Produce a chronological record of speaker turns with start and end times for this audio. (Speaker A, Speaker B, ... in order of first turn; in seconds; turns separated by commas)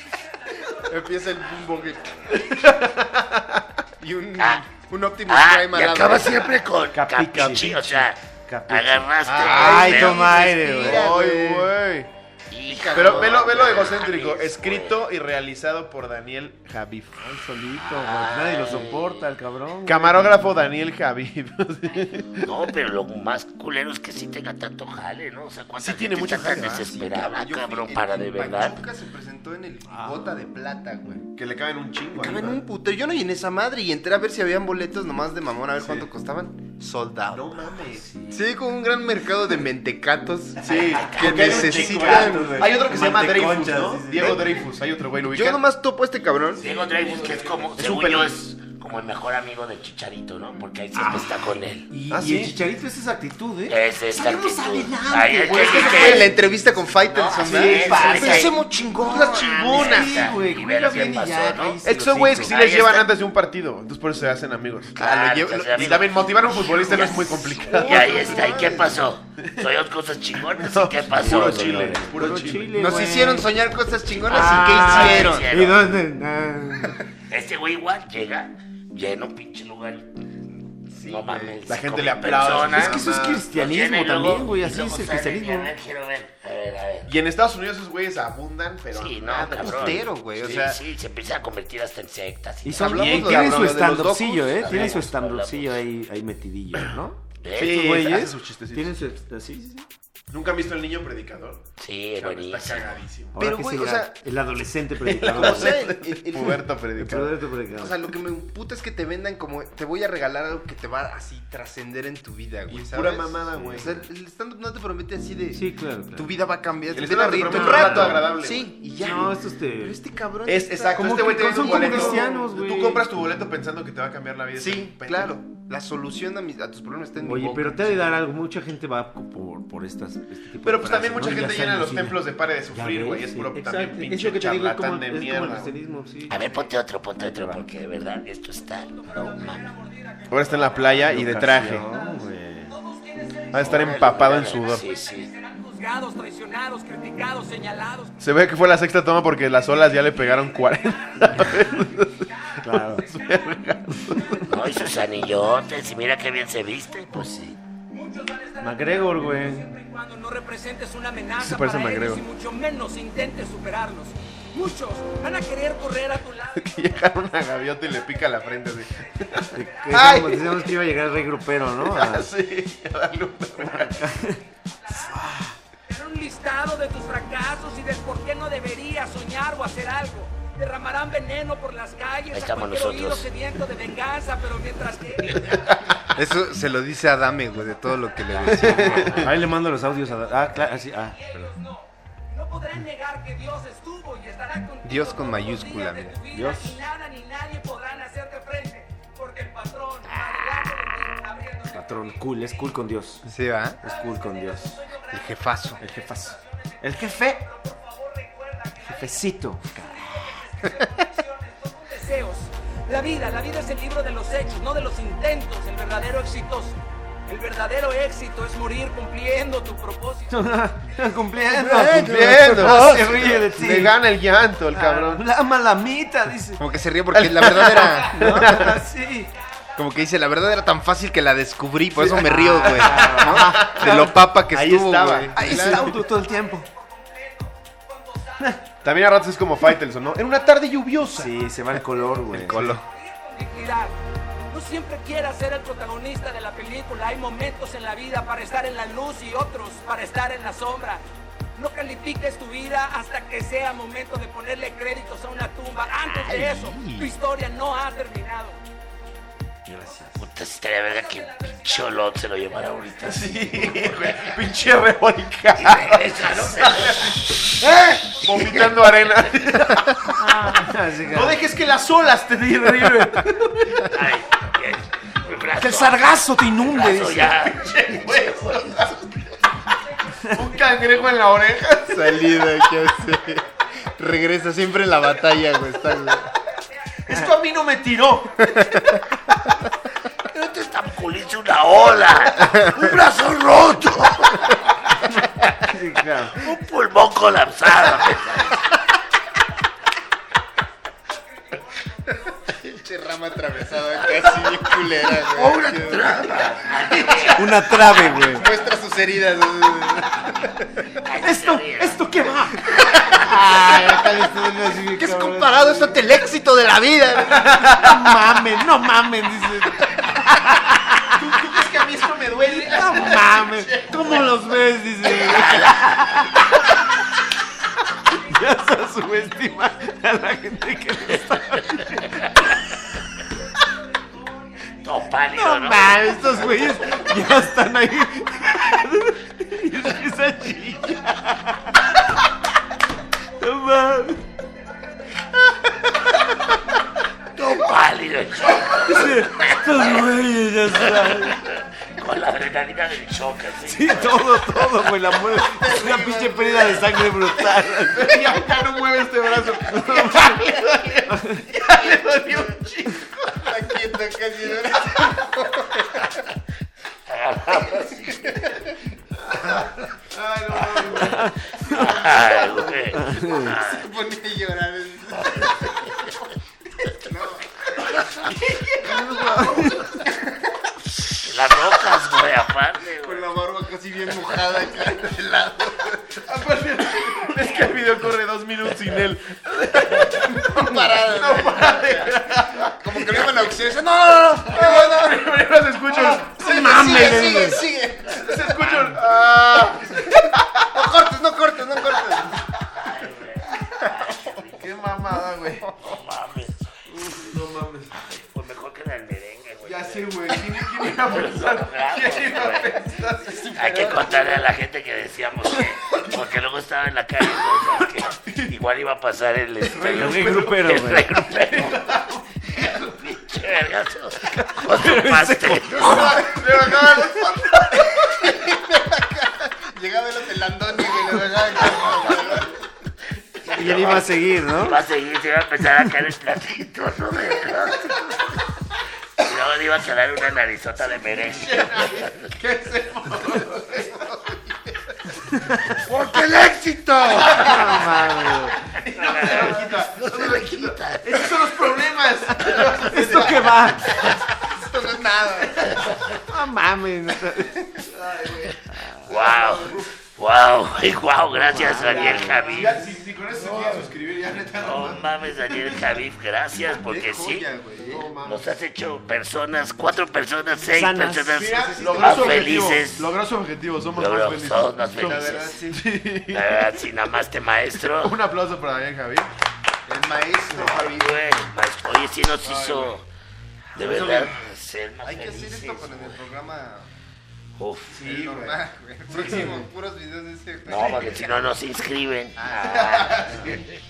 Speaker A: 0.8-2.4, Speaker B: 2.3-3.8, Speaker A: 4.0-6.6, Speaker C: 4.4-4.7, Speaker C: 5.3-10.4, Speaker D: 6.9-11.1, Speaker A: 9.2-11.8, Speaker B: 10.8-12.1, Speaker C: 12.5-15.0, Speaker A: 12.7-14.0, Speaker B: 12.9-17.4, Speaker D: 17.3-20.5, Speaker C: 17.8-19.3, Speaker B: 19.9-22.6, Speaker C: 22.4-28.8, Speaker B: 25.8-26.8, Speaker A: 26.2-31.3, Speaker B: 31.3-32.6, Speaker A: 32.1-42.8, Speaker B: 35.8-36.1, Speaker B: 37.3-38.0, Speaker D: 37.9-38.4, Speaker B: 40.6-45.6, Speaker D: 40.6-44.6, Speaker C: 40.7-41.6, Speaker A: 45.2-46.7, Speaker C: 46.5-51.9, Speaker B: 46.6-48.5, Speaker D: 50.9-56.4, Speaker B: 52.1-52.5, Speaker C: 53.7-56.3, Speaker A: 55.5-60.1, Speaker B: 55.6-56.1, Speaker C: 57.0-58.6, Speaker D: 57.4-58.5, Speaker B: 59.0-60.4, Speaker C: 59.3-63.1, Speaker D: 59.7-62.5, Speaker B: 61.8-65.0, Speaker A: 65.0-66.0, Speaker C: 65.0-72.0, Speaker B: 65.7-68.1, Speaker A: 66.9-69.1, Speaker B: 69.4-69.7, Speaker B: 70.4-72.9, Speaker D: 71.1-73.6, Speaker A: 72.7-75.5, Speaker C: 74.2-75.9, Speaker D: 74.3-77.0, Speaker B: 74.9-75.3, Speaker C: 77.3-87.1, Speaker A: 80.9-81.6, Speaker B: 81.7-83.5, Speaker D: 82.7-85.7, Speaker B: 87.1-90.8, Speaker C: 88.9-93.1, Speaker A: 89.4-90.6, Speaker D: 92.6-99.9, Speaker A: 92.7-95.1, Speaker B: 93.1-94.2, Speaker C: 94.4-95.8, Speaker C: 97.4-97.8, Speaker B: 97.6-99.0, Speaker B: 100.3-101.6, Speaker C: 101.8-102.9, Speaker B: 102.2-103.4, Speaker D: 103.3-105.9, Speaker A: 103.4-104.1, Speaker B: 105.0-107.3, Speaker A: 105.3-106.7, Speaker D: 107.0-108.0, Speaker A: 107.8-122.5, Speaker B: 112.7-114.0, Speaker D: 115.5-116.3, Speaker B: 116.9-118.8, Speaker D: 117.4-118.3, Speaker D: 119.0-120.0, Speaker B: 120.5-125.4, Speaker D: 120.9-123.1, Speaker A: 124.5-128.1, Speaker D: 127.2-136.4, Speaker B: 130.6-135.7, Speaker C: 136.3-139.7, Speaker D: 137.2-137.7, Speaker E: 139.0-141.1, Speaker B: 140.3-141.9, Speaker D: 140.9-142.7, Speaker E: 142.9-144.1, Speaker B: 143.5-144.9, Speaker C: 143.6-145.3, Speaker E: 145.2-148.2, Speaker B: 148.2-154.5, Speaker E: 150.6-151.6, Speaker E: 152.5-153.7, Speaker D: 152.6-153.1, Speaker C: 154.5-157.6, Speaker E: 157.9-167.2, Speaker D: 158.6-159.7, Speaker B: 161.4-162.3, Speaker B: 166.5-170.7, Speaker E: 169.2-171.1, Speaker D: 169.5-172.3, Speaker B: 171.8-174.2, Speaker D: 173.8-174.4, Speaker E: 174.8-185.6, Speaker D: 175.1-175.4, Speaker C: 182.3-183.3, Speaker A: 186.0-189.3, Speaker C: 188.4-189.2, Speaker B: 188.5-189.3, Speaker D: 188.6-191.2, Speaker E: 191.2-202.5, Speaker A: 194.8-196.2, Speaker D: 196.3-196.8, Speaker D: 201.7-203.3, Speaker A: 203.2-203.8, Speaker D: 203.8-204.8, Speaker E: 204.0-205.4, Speaker A: 205.1-205.8, Speaker D: 205.8-207.4, Speaker E: 207.5-209.2, Speaker D: 208.8-210.4, Speaker E: 209.9-220.4, Speaker D: 220.3-224.0, Speaker A: 221.5-223.6, Speaker B: 221.9-225.3, Speaker D: 224.7-226.6, Speaker A: 226.6-228.7, Speaker B: 227.1-228.8, Speaker D: 228.1-229.3, Speaker A: 229.8-236.0, Speaker B: 232.0-235.7, Speaker D: 232.0-233.9, Speaker D: 235.3-236.7, Speaker E: 236.6-237.5, Speaker B: 238.8-241.3, Speaker D: 241.1-242.8, Speaker A: 242.3-242.8, Speaker B: 242.4-242.8, Speaker E: 242.9-244.0, Speaker E: 244.5-251.0, Speaker E: 251.6-258.6, Speaker D: 256.1-257.2, Speaker D: 259.7-260.2, Speaker C: 260.1-264.4, Speaker E: 261.2-261.8, Speaker B: 263.0-273.9, Speaker C: 265.6-269.3, Speaker D: 270.1-271.4, Speaker C: 273.9-276.1, Speaker D: 275.6-277.4, Speaker C: 276.6-279.0, Speaker B: 277.2-279.2, Speaker B: 280.3-282.7, Speaker A: 281.9-286.3, Speaker B: 287.1-288.5, Speaker A: 288.4-289.1, Speaker C: 290.3-294.6, Speaker D: 295.6-296.5, Speaker C: 296.4-298.7, Speaker A: 302.5-311.0, Speaker C: 305.1-307.6, Speaker D: 307.3-308.5, Speaker C: 311.0-312.0, Speaker D: 311.2-316.0, Speaker A: 312.7-314.2, Speaker A: 314.9-317.8, Speaker B: 317.4-318.0, Speaker D: 317.4-321.4, Speaker B: 321.1-324.4, Speaker D: 322.4-326.8, Speaker C: 325.2-326.0, Speaker D: 328.2-332.4, Speaker C: 334.8-336.0, Speaker D: 335.3-341.9, Speaker E: 335.8-337.1, Speaker D: 343.4-344.2, Speaker C: 347.3-350.1, Speaker D: 348.8-351.4, Speaker C: 350.7-354.8, Speaker D: 353.6-358.4, Speaker A: 355.1-357.8, Speaker B: 357.9-363.5, Speaker D: 359.2-361.5, Speaker A: 361.6-362.6, Speaker A: 363.3-366.2, Speaker C: 367.1-368.7, Speaker B: 369.1-373.0, Speaker A: 370.5-370.8, Speaker D: 371.0-372.0, Speaker C: 371.6-373.8, Speaker D: 372.9-373.6, Speaker A: 373.5-376.3, Speaker A: 376.9-378.4, Speaker B: 378.1-379.8, Speaker D: 378.8-380.0, Speaker A: 379.9-380.6, Speaker C: 381.2-383.3, Speaker A: 383.0-386.3, Speaker B: 386.2-393.5, Speaker A: 389.8-402.5, Speaker B: 394.4-396.4, Speaker D: 396.2-397.7, Speaker C: 398.1-399.0, Speaker B: 398.1-400.9, Speaker B: 401.8-402.2, Speaker C: 402.7-404.9, Speaker B: 404.5-405.8, Speaker C: 405.8-407.2, Speaker B: 406.9-407.9, Speaker C: 407.9-410.4, Speaker B: 409.6-413.4, Speaker C: 410.9-412.9, Speaker A: 413.2-414.5, Speaker C: 413.6-421.9, Speaker B: 418.1-418.5, Speaker B: 419.6-422.8, Speaker D: 419.9-421.2, Speaker C: 422.4-426.2, Speaker D: 424.3-426.3, Speaker A: 425.8-427.0, Speaker B: 426.2-427.9, Speaker A: 427.8-432.6, Speaker C: 431.5-432.5, Speaker C: 433.4-438.0, Speaker D: 433.6-434.8, Speaker C: 439.2-442.3, Speaker B: 440.9-444.0, Speaker A: 443.7-445.1, Speaker A: 445.8-447.8, Speaker C: 445.9-447.7, Speaker B: 447.2-448.1, Speaker D: 447.3-448.6, Speaker B: 448.7-453.8, Speaker C: 448.8-451.3, Speaker D: 452.4-454.0, Speaker A: 452.6-455.9, Speaker D: 456.3-457.7, Speaker A: 457.5-457.8, Speaker B: 457.9-459.9, Speaker D: 458.7-459.1, Speaker C: 459.1-462.8, Speaker D: 461.3-462.8, Speaker A: 461.9-462.4, Speaker B: 462.1-465.9, Speaker C: 464.6-467.5, Speaker A: 466.7-468.1, Speaker B: 467.8-468.6, Speaker C: 468.2-473.1, Speaker D: 470.7-472.5, Speaker B: 471.3-476.7, Speaker C: 473.9-475.6, Speaker A: 474.9-475.9, Speaker C: 476.3-478.2, Speaker B: 477.9-479.3, Speaker A: 479.9-481.2, Speaker C: 480.5-483.1, Speaker B: 482.4-483.0, Speaker C: 483.7-486.2, Speaker A: 485.0-486.9, Speaker C: 487.6-488.1, Speaker B: 487.9-489.7, Speaker A: 488.0-491.2, Speaker C: 490.7-493.7, Speaker B: 490.8-491.5, Speaker A: 492.4-493.5, Speaker B: 493.2-493.6